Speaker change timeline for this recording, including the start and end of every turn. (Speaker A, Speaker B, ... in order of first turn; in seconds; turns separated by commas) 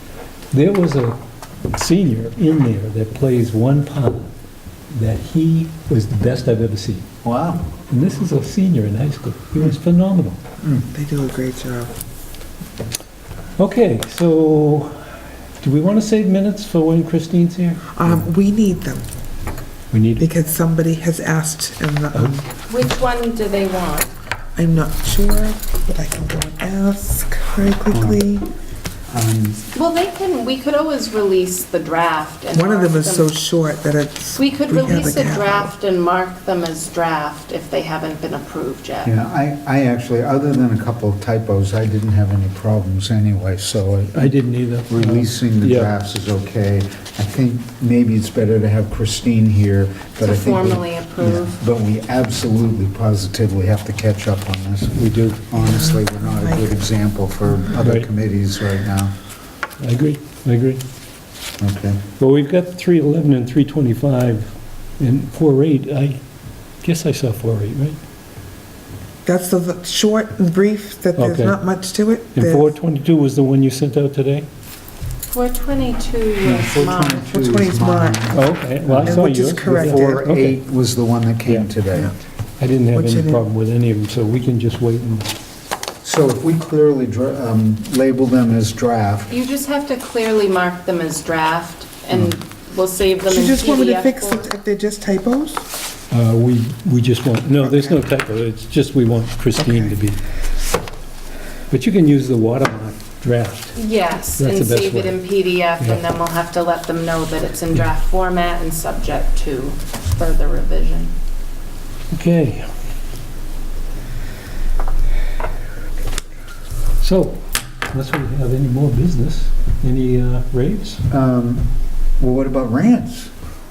Speaker A: 0.5-1.2, Speaker A: 1.7-4.3, Speaker A: 4.9-7.1, Speaker B: 7.2-7.6, Speaker A: 7.9-10.4, Speaker C: 10.9-11.9, Speaker A: 13.6-15.0, Speaker A: 15.6-17.9, Speaker C: 17.9-19.0, Speaker A: 19.9-20.3, Speaker C: 20.2-22.5, Speaker D: 22.7-24.1, Speaker C: 24.6-28.4, Speaker B: 27.9-28.2, Speaker B: 29.1-29.6, Speaker D: 29.7-33.3, Speaker C: 32.5-35.7, Speaker D: 34.4-39.1, Speaker B: 39.0-59.1, Speaker A: 44.2-45.9, Speaker D: 50.2-51.6, Speaker A: 55.0-55.4, Speaker C: 55.6-56.7, Speaker A: 57.8-58.1, Speaker A: 59.8-60.8, Speaker B: 61.6-62.0, Speaker A: 62.2-66.2, Speaker A: 66.8-68.0, Speaker C: 69.2-72.7, Speaker A: 71.2-71.6, Speaker A: 72.3-74.5, Speaker D: 75.3-77.3, Speaker B: 76.4-82.1, Speaker C: 77.2-78.4, Speaker A: 78.3-80.6, Speaker C: 79.0-80.0, Speaker A: 82.6-85.3, Speaker C: 82.9-83.4, Speaker B: 86.0-89.3, Speaker D: 89.3-94.5, Speaker C: 93.3-95.7, Speaker A: 96.1-100.2, Speaker A: 101.7-103.8, Speaker D: 103.8-111.1, Speaker A: 104.4-105.2, Speaker A: 112.1-112.7, Speaker A: 117.0-121.1, Speaker B: 121.1-121.7, Speaker B: 122.2-123.3